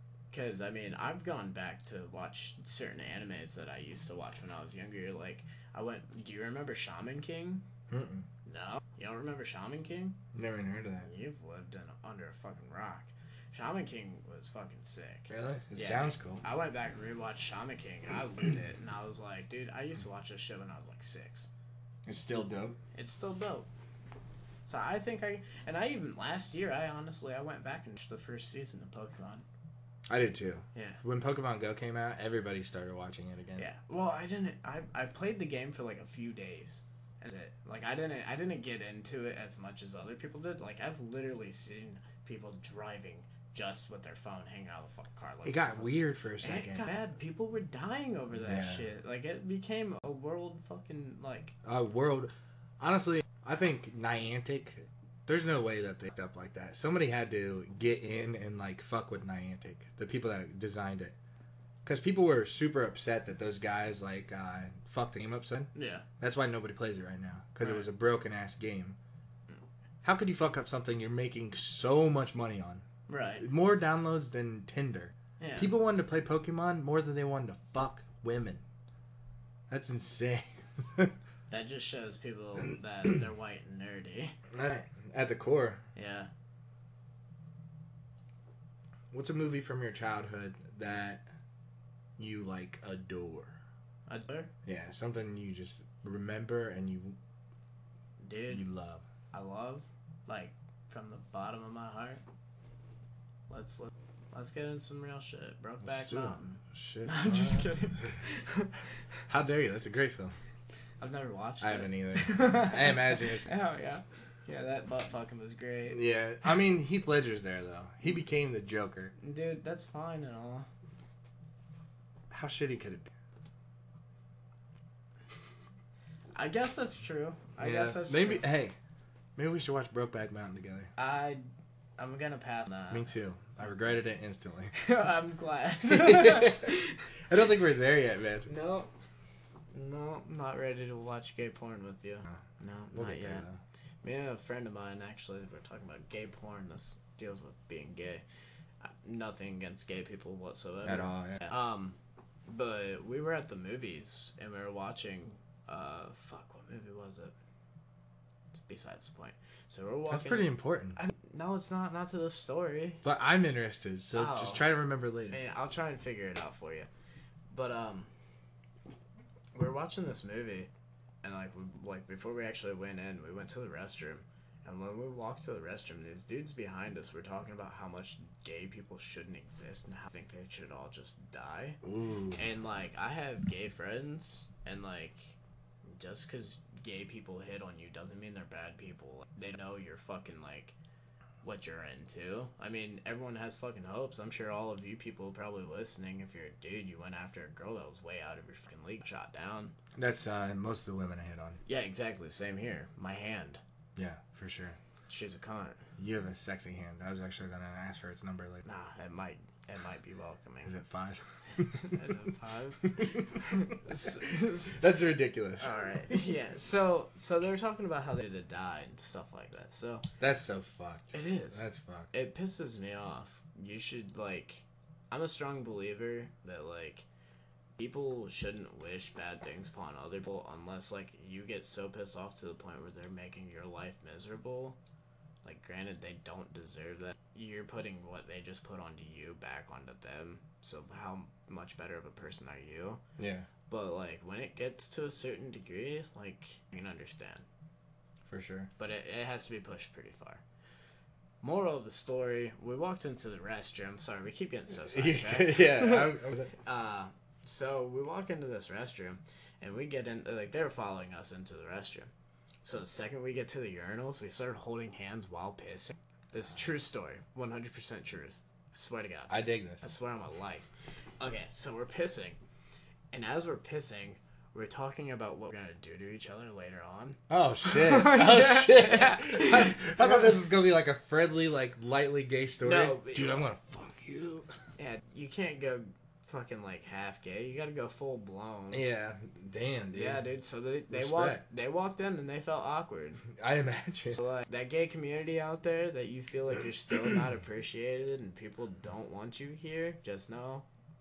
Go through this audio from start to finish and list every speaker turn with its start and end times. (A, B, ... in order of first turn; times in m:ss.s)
0:00.3-0:07.6 A
0:07.9-0:08.2 B
0:08.4-0:10.2 A
0:10.3-0:11.1 B
0:11.0-0:21.5 A
0:15.3-0:16.4 B
0:22.0-0:22.8 B
0:22.9-0:23.7 A
0:24.7-0:29.4 A
0:30.1-0:33.7 B
0:30.7-0:31.0 A
0:33.6-0:51.5 A
0:45.4-0:46.9 B
0:48.4-0:48.8 B
0:51.6-1:01.1 B
1:01.8-1:09.0 B
1:05.7-1:06.0 A
1:07.6-1:07.9 A
1:10.0-1:12.8 B
1:13.1-1:13.4 A
1:13.4-1:18.6 B
1:15.4-1:15.7 A
1:19.7-1:21.1 B
1:21.5-1:24.3 A
1:24.5-1:25.8 B
1:25.9-1:26.3 A
1:29.1-1:31.2 B
1:32.2-1:33.6 B
1:34.1-1:34.5 A
1:34.6-1:37.2 B
1:38.2-1:38.6 A
1:38.5-1:39.0 B
1:39.3-1:42.2 A
1:43.5-1:48.7 A
1:45.8-1:48.2 B
1:49.3-1:50.4 B
1:51.0-1:56.1 A
1:51.6-1:53.5 B
1:55.9-1:59.1 B
1:59.2-2:00.7 A
2:02.3-2:03.1 B
2:06.3-2:08.4 A
2:07.6-2:08.8 B
2:09.4-2:10.9 B
2:11.0-2:11.4 A
2:12.0-2:13.1 A
2:12.9-2:14.7 B
2:14.7-2:17.0 A
2:15.9-2:18.5 B
2:18.4-2:18.9 A
2:19.7-2:23.4 A
2:22.9-2:23.6 B
2:24.0-2:28.2 A
2:28.8-2:32.0 A
2:30.8-2:31.5 B
2:32.5-2:37.3 A
2:38.5-2:43.0 A
2:40.1-2:41.0 B
2:43.0-2:45.4 B
2:44.1-2:44.7 A
2:45.3-2:46.9 A
2:47.5-2:48.1 A
2:49.5-2:50.7 A
2:51.2-3:01.8 A
3:01.8-3:02.4 B
3:02.3-3:05.3 A
3:05.8-3:10.7 A
3:11.4-3:19.7 A
3:19.9-3:21.6 B
3:21.6-3:23.6 A
3:24.0-3:24.8 B
3:25.1-3:25.8 A
3:26.0-3:28.6 B
3:28.6-3:30.7 A
3:30.6-3:32.0 B
3:31.8-3:34.8 A
3:33.0-3:35.8 B
3:35.6-3:40.0 A
3:40.2-3:42.1 B
3:41.1-3:47.0 A
3:47.8-3:54.8 A
3:55.4-4:03.0 A
4:03.2-4:03.5 B
4:03.7-4:07.4 A
4:08.2-4:08.7 B
4:08.8-4:10.4 A
4:11.4-4:22.1 A
4:14.9-4:16.5 B
4:22.6-4:30.7 A
4:29.3-4:29.8 B
4:31.2-4:32.4 A
4:33.1-4:40.3 A
4:37.3-4:44.5 B
4:42.6-4:43.4 A
4:44.8-4:48.8 A
4:48.7-4:50.2 B
4:49.9-4:53.2 A
4:50.9-4:51.4 B
4:53.3-4:54.2 B
4:54.1-5:00.6 A